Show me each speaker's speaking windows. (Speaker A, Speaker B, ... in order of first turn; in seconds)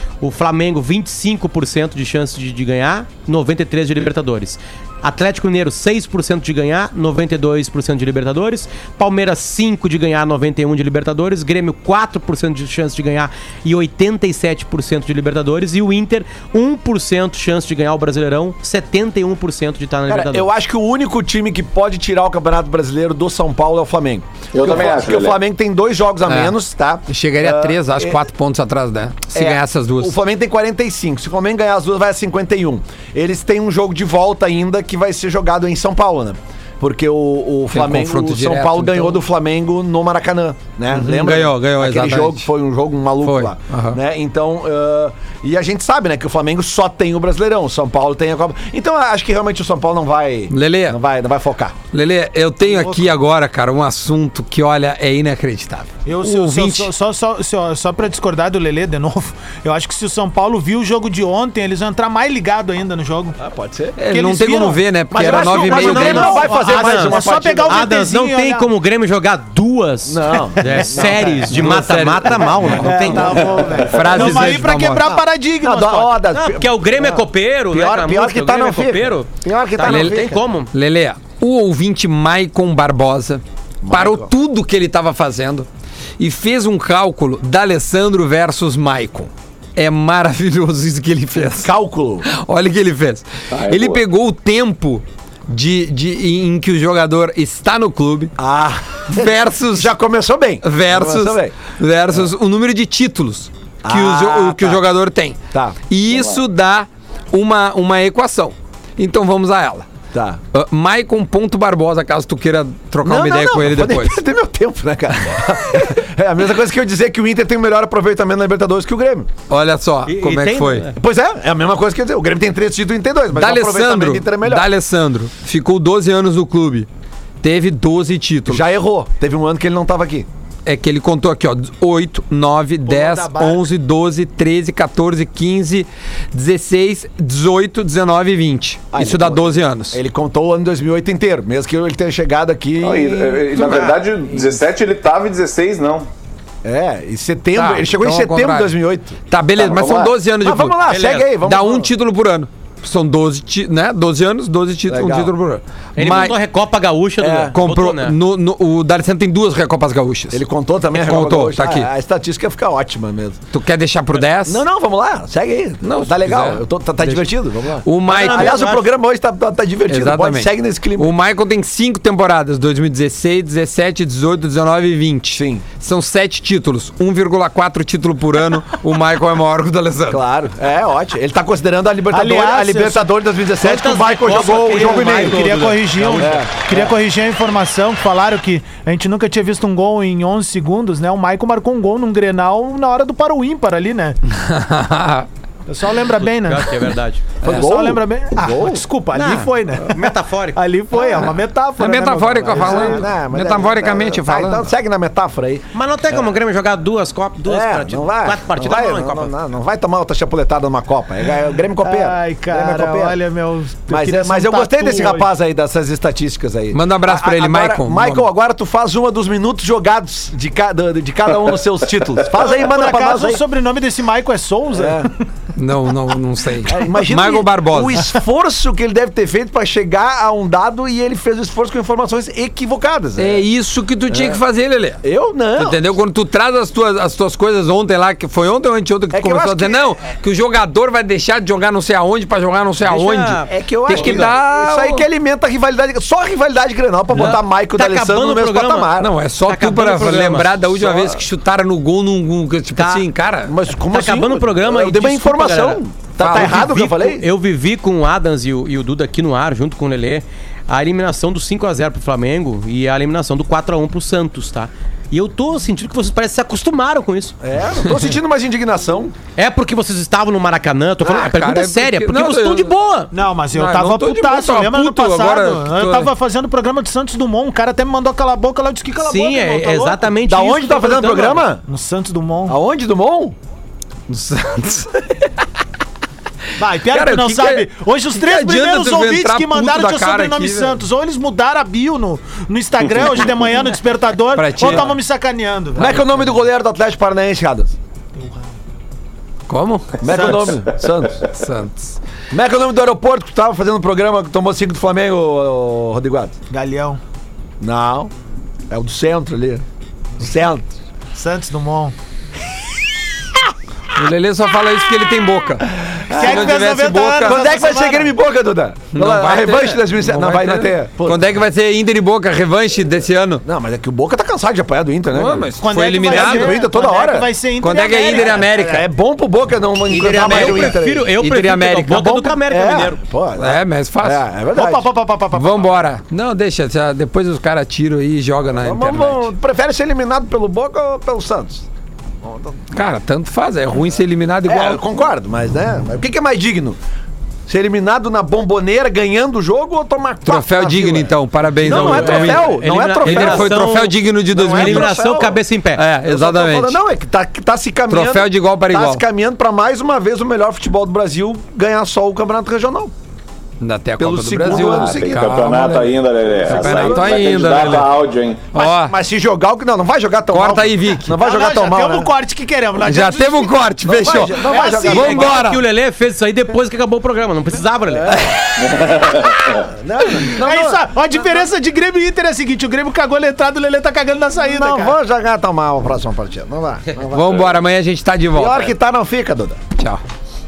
Speaker A: 0.2-20.5, 65.3-73.6, 76.3-80.7, 120.0-120.9, 150.8-151.3, 155.9-158.2, 168.0-168.9, 183.6-186.4, 196.2-197.2, 199.1-200.6, 205.7-209.3, 242.8-244.3, 247.1-250.6, 252.7-253.0, 253.9-267.3, 269.4-273.1, 279.0-281.4, 329.9-333.0, 351.6-355.9, 374.8-378.2
Speaker B: 20.1-28.2, 29.3-51.8, 63.4-64.0, 65.1-67.9, 70.0-71.7, 74.2-74.6, 75.6-80.4, 83.8-84.3, 91.4-92.2, 98.4-102.2, 103.8-104.8, 105.5-105.8, 110.1-110.4, 113.0-119.3, 121.0-124.7, 128.4-130.3, 138.9-144.0, 146.6-149.2, 150.4-151.9, 154.9-155.3, 157.2-157.5, 160.3-163.4, 164.4-171.1, 175.4-175.6, 180.1-186.9, 197.4-198.8, 202.5-206.3, 207.4-213.2, 213.9-223.4, 224.7-225.1, 226.6-233.4, 234.1-234.4, 235.0-235.8, 239.1-239.8, 243.5-249.1, 250.7-251.2, 253.4-257.3, 267.4-269.1, 280.2-281.6, 282.5-283.4, 295.8-297.8, 300.0-301.2, 302.3-306.4, 307.6-308.1, 308.7-309.6, 310.2-310.7, 316.1-316.6, 317.2-321.3, 323.4-325.5, 326.0-327.3, 328.0-331.1, 332.5-334.9, 338.5-341.6, 342.2-342.6, 344.4-346.8, 347.5-355.4, 356.0-362.9, 364.0-367.9, 368.5-372.1, 373.8-375.4, 377.9-381.3, 384.4-387.5, 388.3-389.6
Speaker C: 24.5-25.4, 93.5-94.0, 106.1-106.4, 142.8-146.1, 149.6-150.1, 364.4-368.4, 378.7-379.5
Speaker D: 27.1-30.1, 37.7-39.2, 40.9-42.5, 43.2-44.0, 50.5-51.0, 51.9-56.9, 64.0-66.3, 71.5-72.6, 73.8-75.2, 79.8-85.7, 86.2-91.7, 92.2-98.3, 99.1-99.9, 100.6-109.9, 110.5-114.2, 119.5-120.9, 123.3-126.9, 127.4-128.6, 130.7-140.0, 147.6-148.7, 149.3-150.8, 151.4-156.3, 157.5-160.4, 160.9-161.9, 163.5-164.6, 165.8-166.6, 167.8-168.7, 169.9-180.2, 194.3-195.3, 201.8-204.7, 216.7-218.2, 225.5-228.0, 233.2-235.0, 235.6-245.0, 249.0-253.5, 256.2-256.6, 271.0-272.7, 273.5-276.1, 284.1-285.3, 286.9-290.8, 294.3-294.9, 299.5-300.6, 301.2-301.9, 313.9-317.5, 318.9-323.4, 325.1-326.6, 327.6-328.9, 330.1-332.4, 333.4-334.2, 335.3-339.3, 342.7-344.8, 350.2-354.9, 355.8-356.8, 357.9-359.0, 363.6-365.8, 366.5-367.9, 368.5-368.9, 370.3-371.1, 372.8-375.6, 387.1-388.7
Speaker E: 52.6-53.0, 56.0-63.4, 64.1-68.7, 70.7-71.0, 72.7-76.2, 132.8-133.7, 182.1-183.1, 184.7-194.2, 195.7-196.7, 197.4-203.1, 211.8-215.3, 222.5-225.1, 273.1-280.1, 281.7-282.6, 286.6-296.0, 298.1-298.5, 306.5-307.0, 311.1-311.9, 316.1-318.1, 325.6-328.5, 334.5-335.8, 371.1-373.7, 374.4-375.3, 380.2-384.9